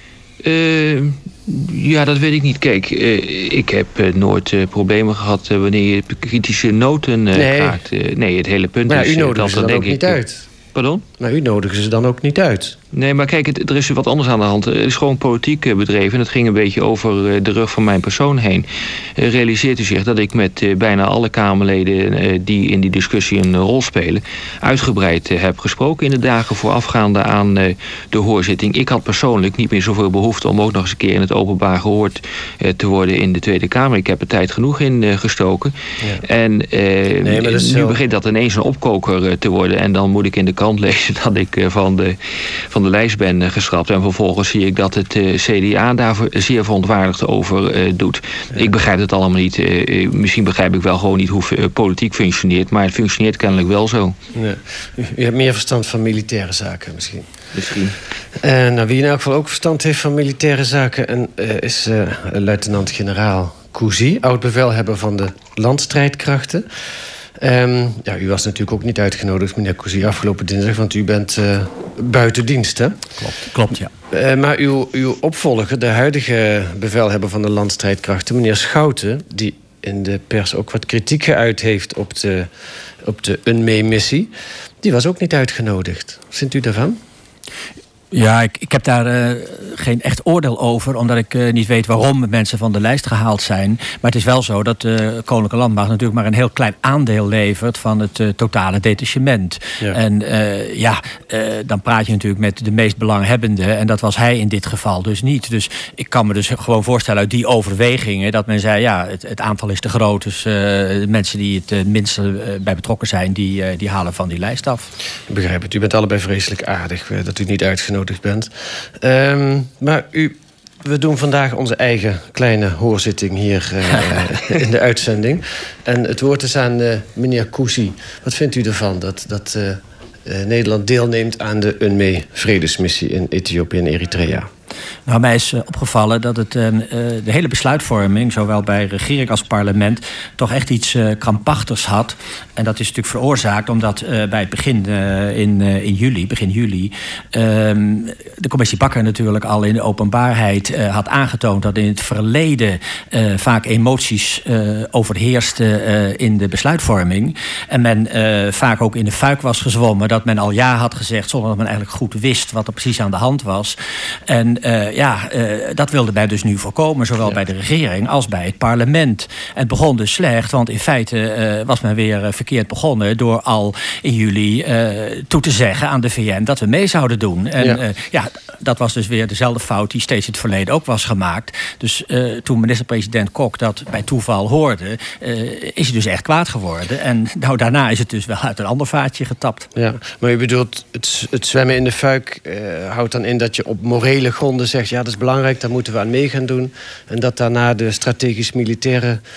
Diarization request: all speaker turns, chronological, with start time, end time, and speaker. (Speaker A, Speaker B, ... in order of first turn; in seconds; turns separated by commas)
Speaker A: 0.4-10.2, Speaker B: 7.3-7.8, Speaker B: 8.9-10.5, Speaker A: 10.7-11.0, Speaker B: 11.2-12.8, Speaker A: 12.9-18.7, Speaker A: 19.2-35.7, Speaker A: 36.2-42.2, Speaker B: 37.2-38.0, Speaker A: 42.7-54.2, Speaker B: 54.3-57.3, Speaker A: 57.5-58.0, Speaker B: 58.4-66.7, Speaker B: 67.4-73.0, Speaker C: 73.2-73.9, Speaker B: 74.1-82.5, Speaker B: 83.0-87.0, Speaker C: 88.1-114.9, Speaker B: 115.3-134.5, Speaker C: 135.1-163.8, Speaker C: 164.3-189.7, Speaker B: 189.8-199.2